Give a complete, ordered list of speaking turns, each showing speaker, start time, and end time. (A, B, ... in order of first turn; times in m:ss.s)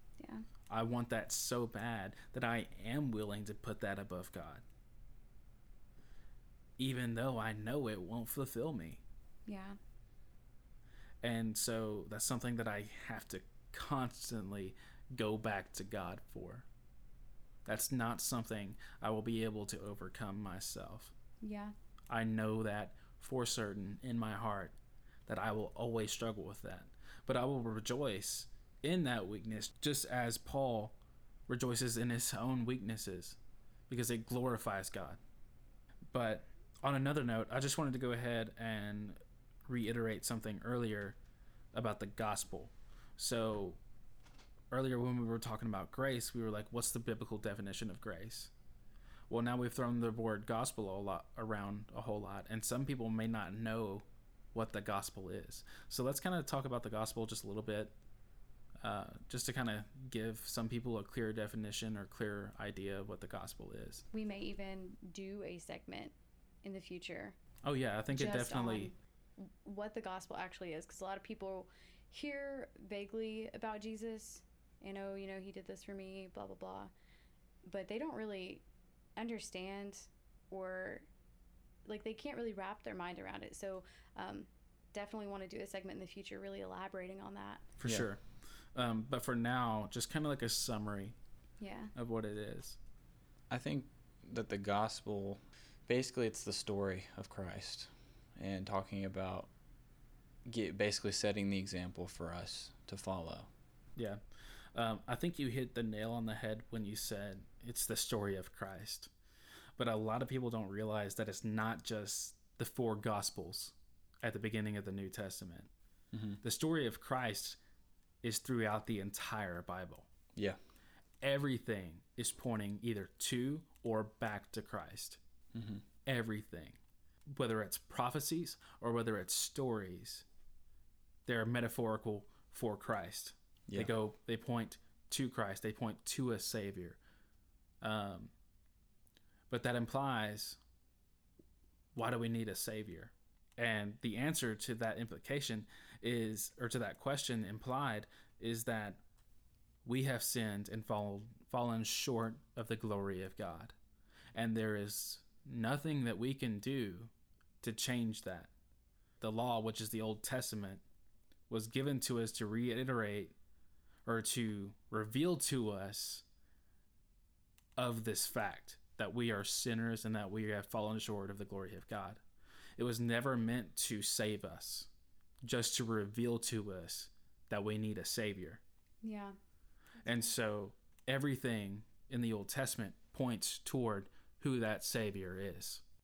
0:00.2-0:00.4 A
0:00.7-0:04.6 B
0:06.8-0:09.0 B
0:09.5-0:09.8 A
0:11.2-0:16.7 B
0:17.6-0:21.1 B
0:21.4-0:21.7 A
0:22.1-0:24.7 B
0:25.3-0:31.0 B
0:31.5-0:33.4 B
0:33.9-0:35.2 B
0:36.1-0:41.2 B
0:41.7-0:43.8 B
0:44.7-0:48.5 B
0:49.3-0:57.9 B
0:58.8-1:04.0 B
1:04.1-1:07.4 A
1:07.6-1:08.9 B
1:08.1-1:16.9 A
1:17.7-1:18.6 A
1:19.2-1:21.1 A
1:21.8-1:27.6 A
1:27.8-1:28.2 B
1:28.7-1:31.2 B
1:31.6-1:31.9 A
1:31.9-1:32.8 B
1:33.5-1:39.5 C
1:40.4-1:43.5 C
1:44.0-1:44.2 B
1:44.7-1:49.1 B
1:49.8-1:55.7 B
1:56.1-1:56.4 C
1:56.4-1:57.6 B
1:58.2-2:00.1 B
2:01.2-2:05.2 B
2:05.5-2:05.8 C
2:06.0-2:10.2 B
2:11.2-2:17.0 B
2:17.8-2:18.3 B
2:19.5-2:20.6 B
2:21.9-2:29.0 B
2:29.8-2:33.7 B
2:34.3-2:37.1 B
2:37.6-2:38.5 B
2:39.2-2:40.8 B
2:41.5-2:43.3 B
2:44.0-2:46.2 B
2:47.8-2:52.2 B
2:52.8-2:54.9 B
2:55.4-2:58.6 B
2:59.0-2:59.4 A
3:00.0-3:00.3 A
3:00.0-3:05.8 B